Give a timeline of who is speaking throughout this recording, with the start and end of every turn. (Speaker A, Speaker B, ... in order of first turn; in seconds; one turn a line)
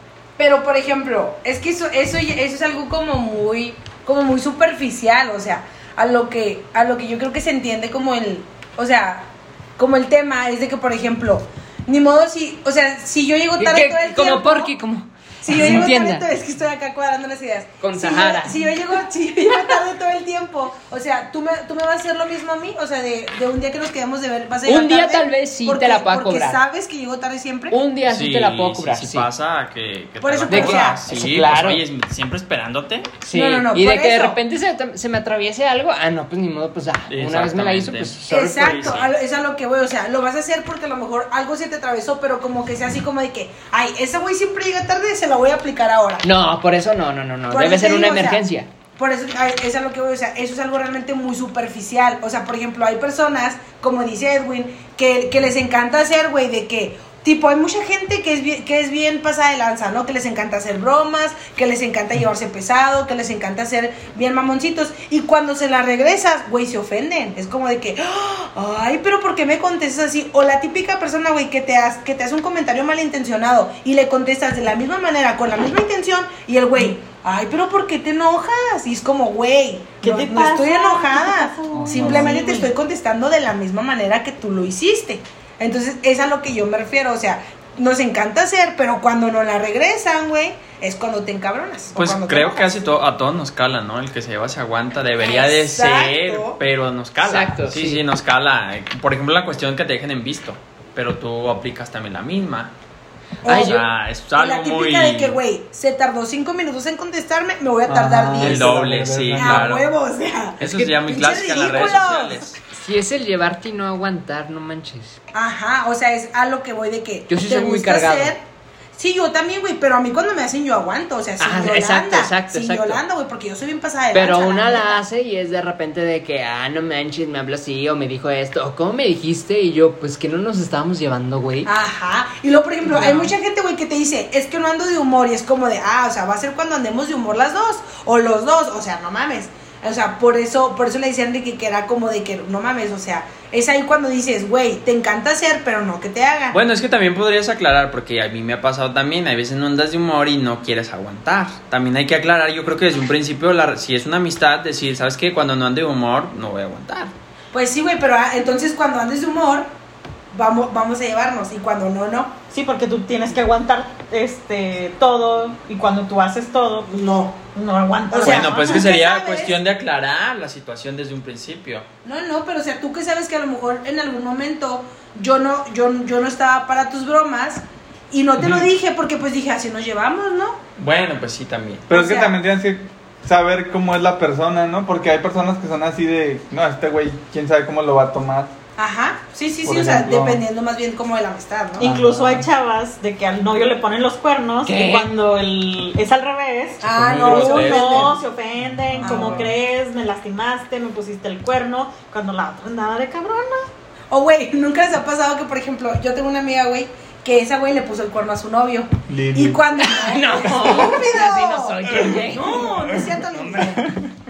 Speaker A: 0.4-14.7
Speaker B: 13.6-16.2
Speaker A: 15.4-27.7
Speaker B: 17.8-18.6
Speaker B: 24.6-26.6
Speaker B: 27.7-29.3
Speaker C: 28.0-33.1
Speaker A: 30.2-31.0
Speaker B: 30.5-31.8
Speaker B: 33.2-38.7
Speaker A: 33.3-34.4
Speaker C: 37.1-39.1
Speaker A: 38.3-46.2
Speaker B: 46.2-48.7
Speaker A: 47.5-48.4
Speaker A: 49.0-92.9
Speaker D: 80.0-82.7
Speaker E: 81.7-82.4
Speaker C: 91.9-102.7
Speaker A: 95.2-96.6
Speaker B: 97.2-98.0
Speaker B: 103.4-103.8
Speaker A: 103.4-108.8
Speaker C: 103.5-105.4
Speaker E: 107.9-109.7
Speaker C: 108.4-109.9
Speaker A: 109.3-112.5
Speaker C: 110.6-112.6
Speaker B: 110.6-110.9
Speaker B: 112.7-115.2
Speaker A: 115.3-118.4
Speaker B: 117.3-118.3
Speaker A: 119.0-125.0
Speaker B: 121.4-123.0
Speaker B: 124.1-131.7
Speaker A: 131.6-146.6
Speaker C: 146.5-157.1
Speaker A: 157.5-159.7
Speaker A: 160.3-162.3
Speaker D: 162.5-168.9
Speaker A: 166.9-167.3
Speaker A: 168.1-169.6
Speaker C: 168.2-171.8
Speaker A: 172.0-180.6
Speaker E: 178.4-178.7
Speaker C: 180.8-181.9
Speaker E: 181.9-188.5
Speaker A: 181.9-182.3
Speaker A: 188.8-191.9
Speaker E: 189.6-190.4
Speaker E: 191.8-192.5
Speaker D: 191.8-203.7
Speaker B: 194.6-195.1
Speaker A: 196.8-198.1
Speaker C: 196.9-198.1
Speaker E: 198.8-199.5
Speaker A: 199.0-199.4
Speaker A: 204.1-213.8
Speaker E: 209.1-209.6
Speaker B: 209.8-212.6
Speaker E: 211.9-214.1